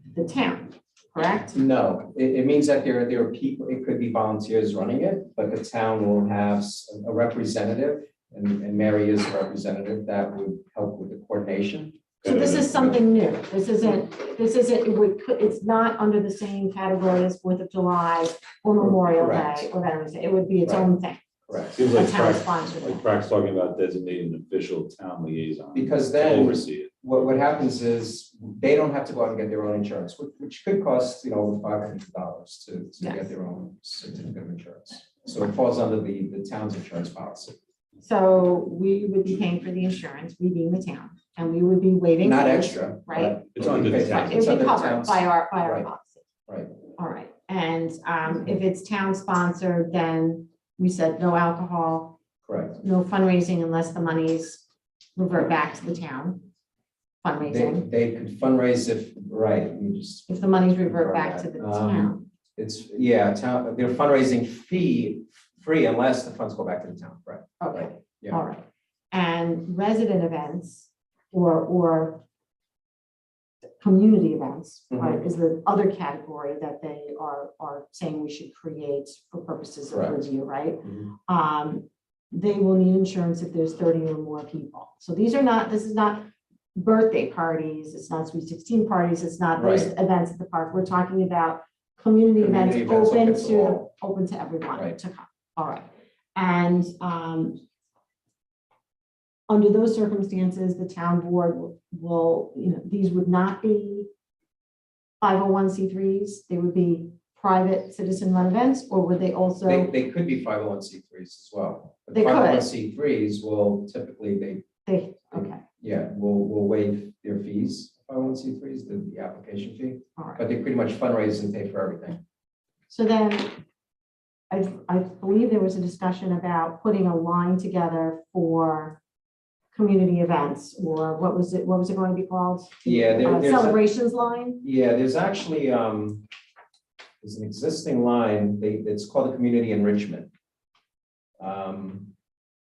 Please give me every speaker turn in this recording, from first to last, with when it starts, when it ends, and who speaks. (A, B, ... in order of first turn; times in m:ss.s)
0:00.1-0:01.6 A
0:01.5-0:12.0 B
0:12.2-0:13.0 C
0:12.2-0:23.1 A
0:19.0-0:19.7 B
0:20.6-0:20.9 B
0:21.5-0:21.8 B
0:21.8-0:27.0 C
0:25.8-0:37.6 B
0:33.0-0:33.3 A
0:38.0-0:46.2 A
0:42.2-0:45.9 B
0:43.6-0:44.5 C
0:47.0-0:52.2 A
0:52.4-0:52.8 B
0:52.8-0:54.6 A
0:55.2-0:56.4 A
0:57.2-0:57.9 A
0:57.4-1:08.4 B
1:00.3-1:02.3 A
1:07.6-1:12.2 A
1:13.8-1:37.6 A
1:14.9-1:15.2 B
1:20.8-1:21.1 B
1:29.6-1:29.9 B
1:32.4-1:33.9 B
1:39.5-1:44.1 A
1:45.2-1:49.9 A
1:49.7-1:54.6 B
1:52.1-1:52.7 A
1:54.9-1:55.6 A
1:55.3-2:02.2 B
2:02.9-2:03.6 A
2:04.5-2:09.0 A
2:09.7-2:14.6 A
2:12.8-2:13.8 B
2:14.6-2:16.3 B
2:17.2-2:20.3 B
2:21.4-2:22.1 B